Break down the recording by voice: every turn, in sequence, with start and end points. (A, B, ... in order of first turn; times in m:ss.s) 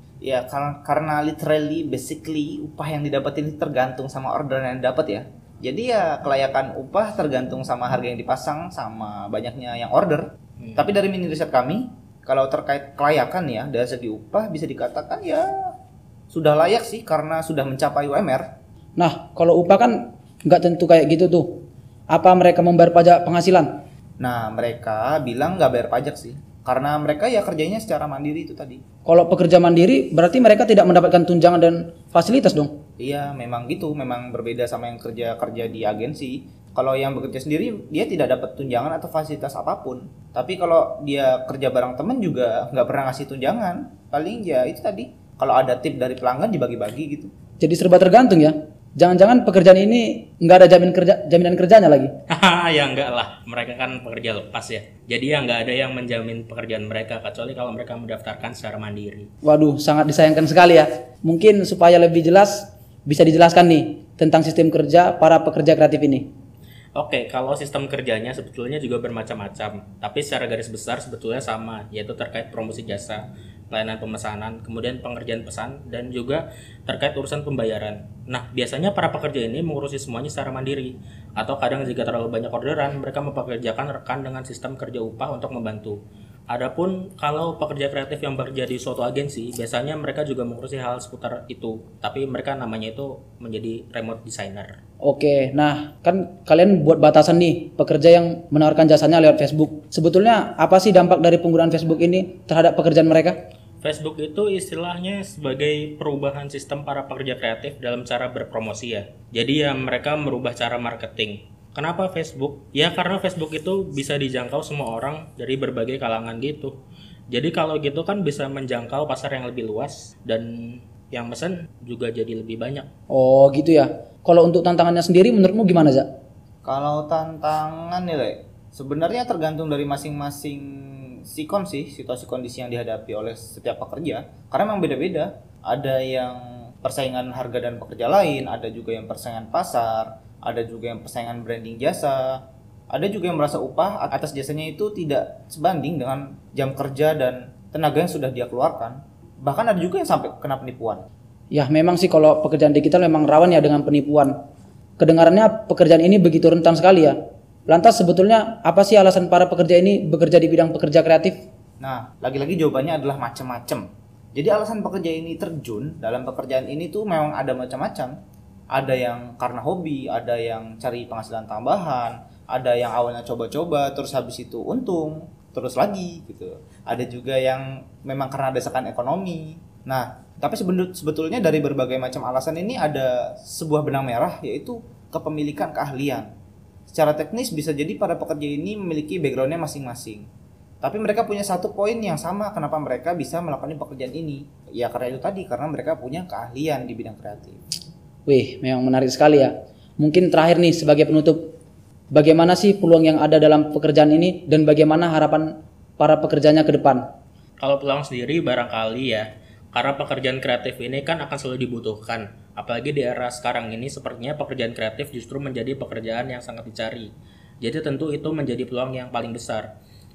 0:00.2-0:15.7 A
0:16.3-0:18.5 A
0:19.0-0:21.6 B
0:22.1-0:23.7 B
0:24.2-0:28.8 A
0:29.0-0:32.7 B
0:33.0-0:47.3 A
0:47.6-0:52.1 B
0:52.3-0:59.3 C
0:59.4-1:06.3 B
1:07.0-1:26.0 C
1:26.5-1:34.8 C
1:35.0-1:43.4 B
1:43.8-1:56.8 C
1:57.3-2:02.9 C
2:03.1-2:06.1 B
2:06.6-2:22.4 A
2:22.9-2:31.0 A
2:31.5-2:34.3 B
2:35.0-2:41.4 B
2:41.8-2:48.2 A
2:48.7-3:06.3 A
3:06.9-3:10.3 A
3:10.8-3:17.6 A
3:18.2-3:21.5 B
3:22.1-3:27.0 B
3:27.6-3:37.1 C
3:37.6-3:39.7 C